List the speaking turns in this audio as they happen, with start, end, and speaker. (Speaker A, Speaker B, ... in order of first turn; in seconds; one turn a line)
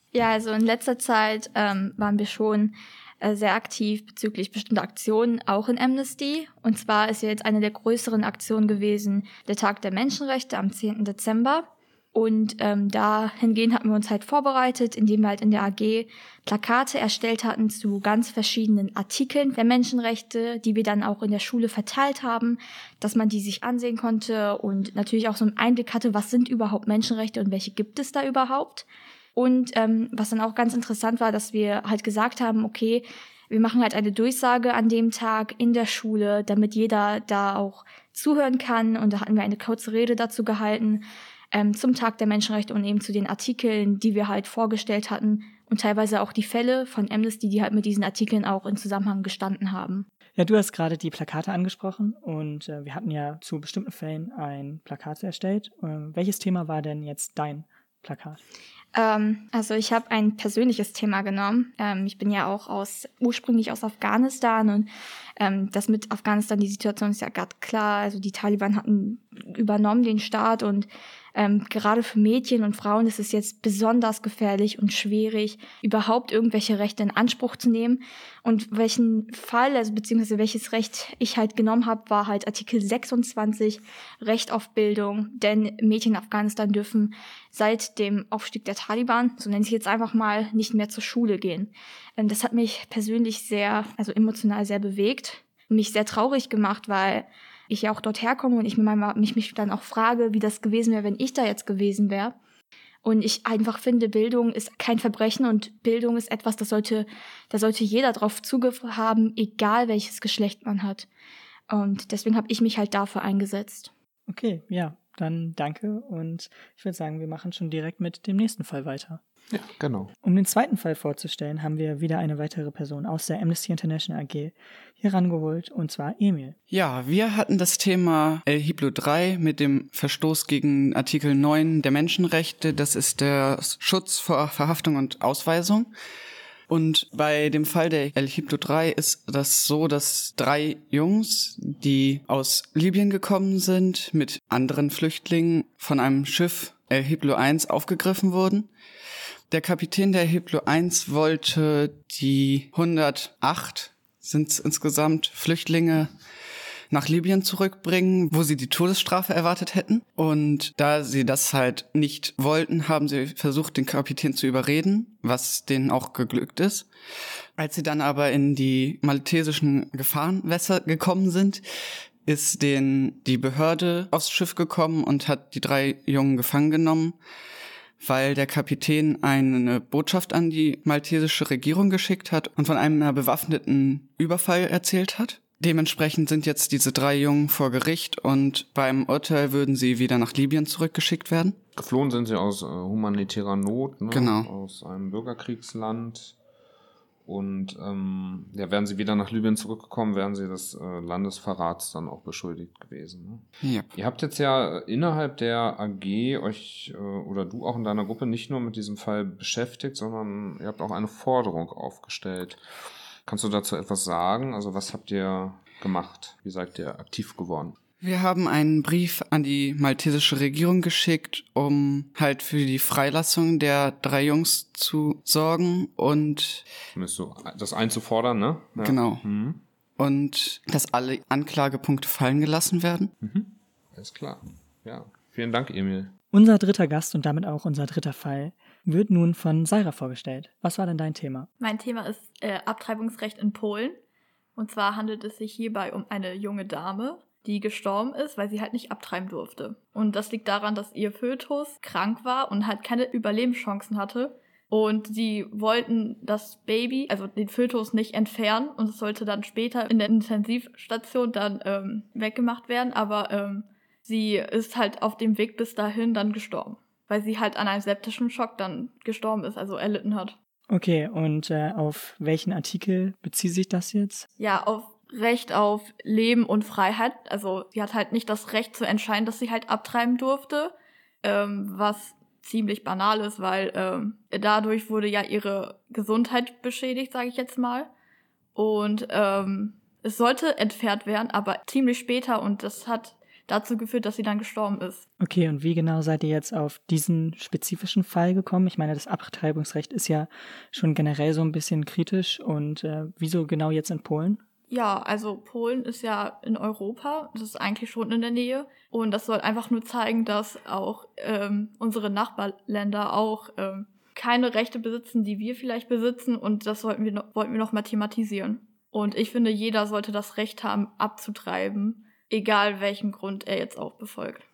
Speaker A: 0.1-50.1
Speaker B: 50.4-58.4
Speaker A: 58.9-102.3
Speaker A: 103.0-111.1
Speaker A: 111.7-113.9
Speaker B: 114.3-119.2
Speaker C: 119.5-120.1
Speaker B: 120.2-126.6
Speaker D: 126.7-135.9
Speaker D: 136.7-148.7
Speaker D: 149.5-156.1
Speaker D: 156.9-166.9
Speaker D: 167.6-171.6
Speaker D: 172.3-177.2
Speaker D: 178.0-191.6
Speaker C: 191.8-196.4
Speaker D: 194.1-194.5
Speaker C: 197.3-203.4
Speaker C: 204.0-212.6
Speaker C: 213.3-217.8
Speaker D: 218.0-226.6
Speaker C: 226.9-229.6
Speaker D: 228.8-229.2
Speaker D: 230.0-233.1
Speaker C: 233.2-236.1
Speaker B: 236.3-241.5
Speaker E: 241.6-244.0
Speaker E: 244.6-270.4
Speaker B: 270.7-274.3
Speaker E: 274.4-287.9
Speaker E: 288.6-295.1
Speaker B: 295.2-304.4
Speaker E: 304.7-324.4